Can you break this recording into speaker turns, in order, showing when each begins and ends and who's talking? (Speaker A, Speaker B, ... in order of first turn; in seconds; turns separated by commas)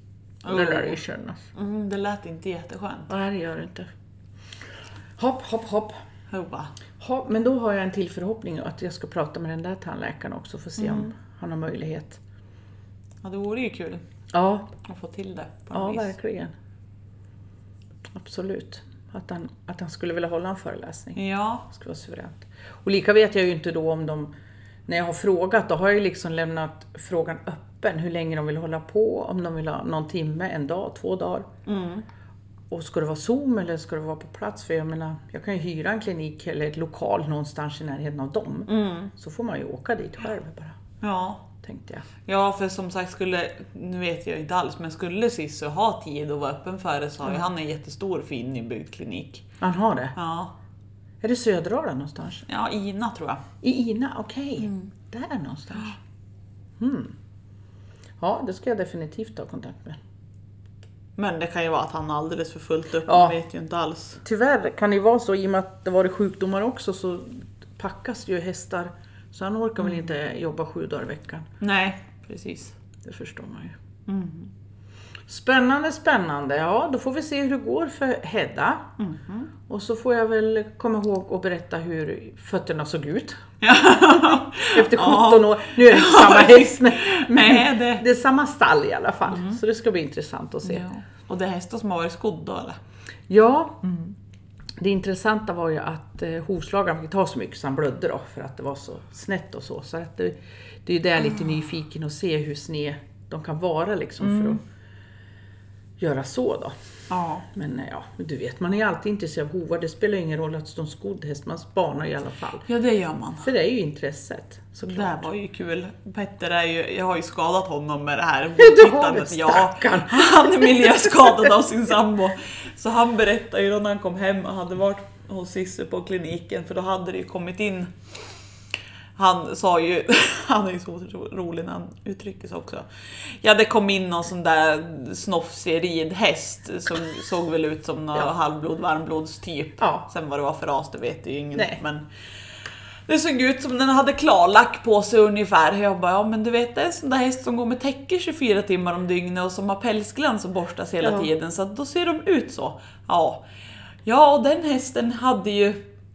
Speaker A: 0.4-1.0, Speaker B: 0.5-1.4, Speaker A: 1.5-3.1, Speaker B: 3.1-3.9, Speaker B: 5.2-6.0, Speaker A: 6.3-6.7, Speaker B: 7.0-12.2, Speaker A: 10.8-11.1, Speaker A: 13.2-14.0, Speaker B: 14.3-14.7, Speaker A: 14.8-16.1, Speaker B: 15.7-16.5, Speaker B: 18.1-24.3, Speaker A: 21.1-21.6, Speaker B: 24.9-31.5, Speaker A: 31.6-32.0, Speaker B: 32.7-40.8, Speaker A: 38.7-39.1, Speaker A: 41.0-41.5, Speaker B: 41.6-42.1, Speaker A: 42.2-49.5, Speaker B: 49.6-50.1, Speaker A: 50.1-50.5, Speaker B: 51.2-52.5, Speaker A: 52.5-53.4, Speaker B: 53.6-56.0, Speaker A: 54.6-54.9, Speaker B: 56.8-57.1, Speaker B: 58.2-60.0, Speaker A: 61.2-64.2, Speaker B: 63.1-63.4, Speaker B: 64.2-71.5, Speaker A: 71.6-72.8, Speaker B: 73.0-73.8, Speaker A: 74.1-74.5, Speaker B: 75.3-78.9, Speaker A: 79.0-79.5, Speaker B: 79.7-90.8, Speaker A: 83.6-88.0, Speaker A: 89.3-89.6, Speaker A: 90.6-92.8, Speaker B: 93.3-93.8, Speaker A: 93.8-94.1, Speaker B: 94.8-104.6, Speaker A: 104.2-104.6, Speaker B: 106.0-106.7, Speaker A: 107.1-107.5, Speaker B: 107.5-112.7, Speaker A: 112.7-113.5, Speaker B: 113.4-115.3, Speaker A: 114.9-127.9, Speaker B: 118.6-121.5, Speaker A: 129.2-142.1, Speaker B: 139.8-140.1, Speaker B: 141.6-141.8, Speaker A: 143.1-153.4, Speaker B: 151.0-151.3, Speaker A: 154.1-155.8